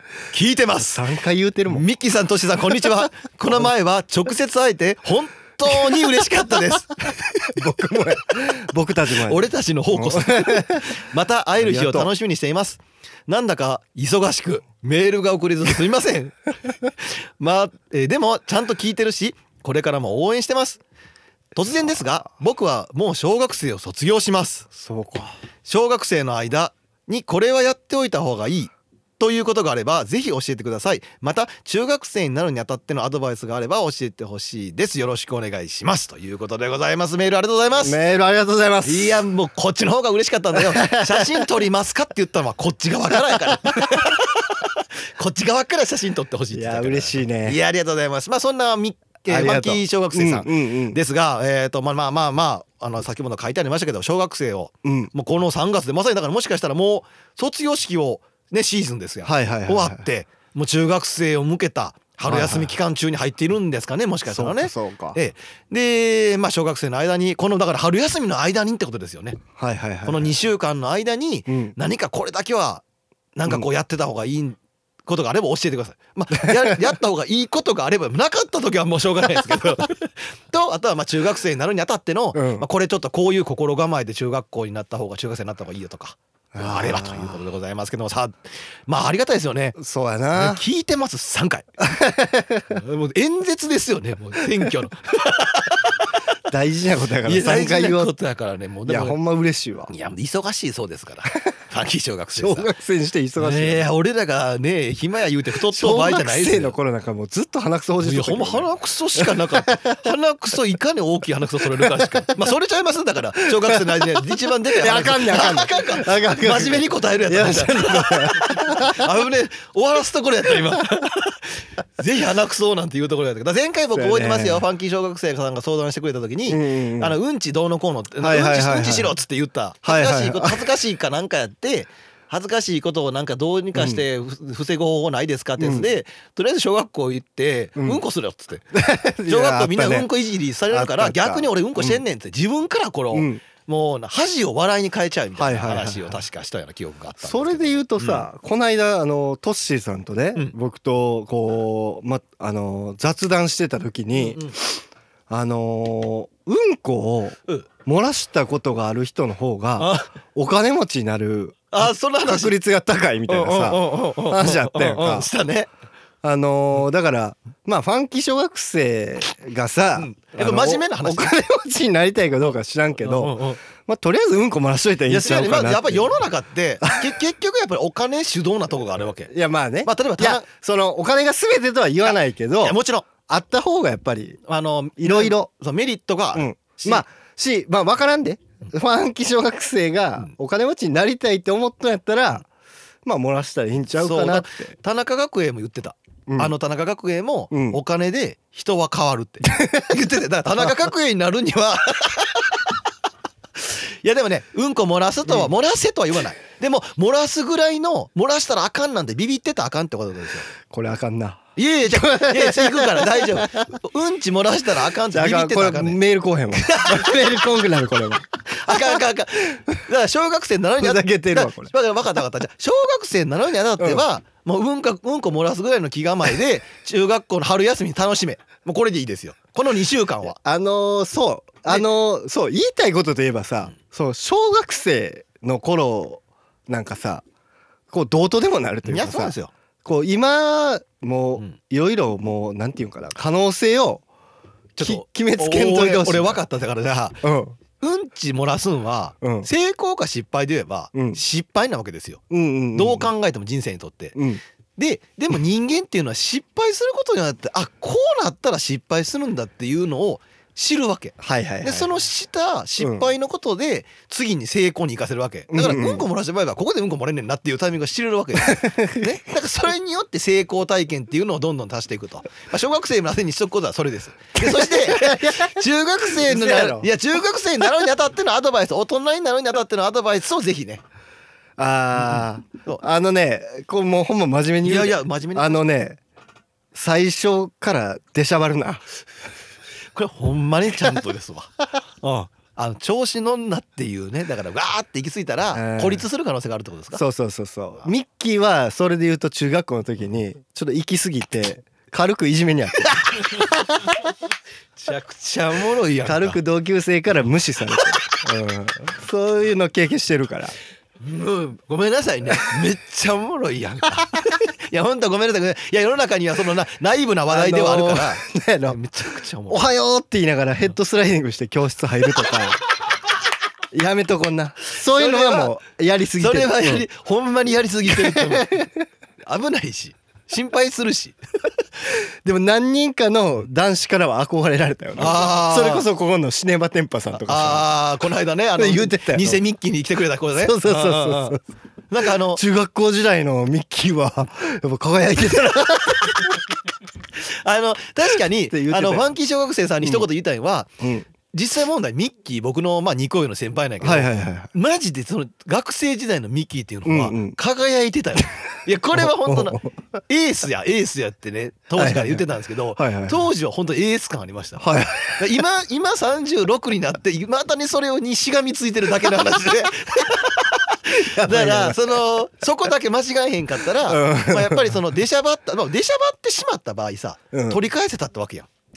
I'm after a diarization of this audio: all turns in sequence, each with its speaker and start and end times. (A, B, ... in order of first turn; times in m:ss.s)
0:00.3-0:01.0 A
0:00.8-0:01.8 B
0:01.7-0:07.6 A
0:07.5-0:11.0 B
0:09.1-0:16.4 A
0:11.6-0:12.1 B
0:17.0-0:20.8 A
0:21.5-0:24.7 A
0:24.8-0:25.3 B
0:25.6-0:38.0 A
0:37.8-0:39.2 B
0:38.8-1:09.4 A
0:40.5-0:41.5 B
0:46.5-0:47.6 B
0:49.3-0:51.0 B
0:54.8-0:55.1 B
0:59.2-1:00.0 B
1:02.3-1:02.7 B
1:04.3-1:05.2 B
1:09.6-1:10.4 B
1:10.0-1:29.8 A
1:11.5-1:11.7 B
1:16.4-1:16.9 B
1:22.3-1:22.6 B
1:26.5-1:27.4 B
1:29.8-1:30.6 B
1:30.3-1:31.7 A
1:31.8-1:32.8 B
1:32.7-1:36.1 A
1:36.5-1:38.1 B
1:37.2-1:39.2 A
1:38.9-1:39.9 B
1:39.9-1:42.7 A
1:42.3-1:43.9 B
1:43.4-1:46.8 A
1:45.7-1:50.1 B
1:48.0-2:18.7 A
1:51.8-1:52.3 B
1:53.4-1:54.0 B
1:54.8-1:59.1 B
2:03.9-2:04.6 B
2:06.5-2:07.2 B
2:08.2-2:09.1 B
2:09.8-2:10.6 B
2:13.7-2:14.0 B
2:15.6-2:15.9 B
2:17.8-2:18.0 B
2:18.7-2:20.1 B
2:19.2-2:28.3 A
2:20.7-2:22.0 B
2:23.1-2:23.4 B
2:25.4-2:26.2 B
2:27.2-2:34.7 B
2:34.1-2:34.6 A
2:35.3-2:45.3 B
2:39.8-2:40.1 A
2:41.7-2:42.6 A
2:43.3-2:45.7 A
2:46.2-2:56.2 B
2:50.0-2:51.3 A
2:53.0-2:53.6 A
2:55.1-2:59.3 A
2:56.8-2:57.1 B
2:59.3-3:04.4 B
2:59.8-3:00.4 A
3:02.6-3:03.1 A
3:04.5-3:07.0 A
3:05.0-3:05.5 B
3:06.3-3:12.5 B
3:13.0-3:14.7 B
3:13.9-3:22.6 A
3:16.3-3:16.5 B
3:17.5-3:17.8 B
3:19.4-3:20.0 B
3:23.7-3:30.5 A
3:30.7-3:33.7 B
3:31.6-3:36.0 A
3:35.1-3:39.0 B
3:36.7-3:37.4 A
3:38.4-3:50.4 A
3:40.8-3:41.7 B
3:43.8-3:44.0 B
3:50.2-3:57.2 B
3:57.9-3:59.3 B
3:58.8-3:59.5 A
3:59.8-4:04.0 B
4:04.8-4:07.2 A
4:04.8-4:06.4 B
4:07.2-4:07.6 B
4:07.8-4:12.2 A
4:09.2-4:09.5 B
4:10.9-4:11.2 B
4:12.3-4:13.1 B
4:12.7-4:14.2 A
4:14.1-4:14.4 B
4:14.8-4:40.8 A
4:21.2-4:21.9 B
4:22.8-4:23.1 B
4:25.5-4:26.0 B
4:28.4-4:29.2 B
4:34.4-4:36.9 B
4:41.6-4:46.0 B
4:42.0-4:42.8 A
4:44.6-4:45.6 A
4:46.7-4:48.8 B
4:49.9-4:57.0 A
4:55.5-4:56.0 B
4:56.9-5:04.0 B
5:04.8-5:06.4 A
5:06.0-5:10.5 B
5:11.0-5:19.6 A
5:17.3-5:18.8 B
5:19.5-5:22.6 B
5:23.7-5:26.8 B
5:24.9-5:25.6 A
5:26.2-5:28.6 A
5:27.9-5:28.8 B
5:29.2-5:31.2 A
5:31.9-5:37.7 B
5:35.0-5:35.9 A
5:37.1-5:42.4 A
5:38.6-5:39.4 B
5:40.4-5:41.4 B
5:42.3-5:46.4 B
5:47.2-5:50.7 A
5:48.5-5:49.1 B
5:50.8-5:51.1 B
5:51.3-6:18.5 A
5:53.8-5:54.5 B
5:56.8-5:57.4 B
5:58.9-5:59.7 B
6:01.8-6:02.2 B
6:02.8-6:03.2 B
6:04.6-6:05.4 B
6:10.9-6:12.0 B
6:13.8-6:14.8 B
6:17.3-6:17.6 B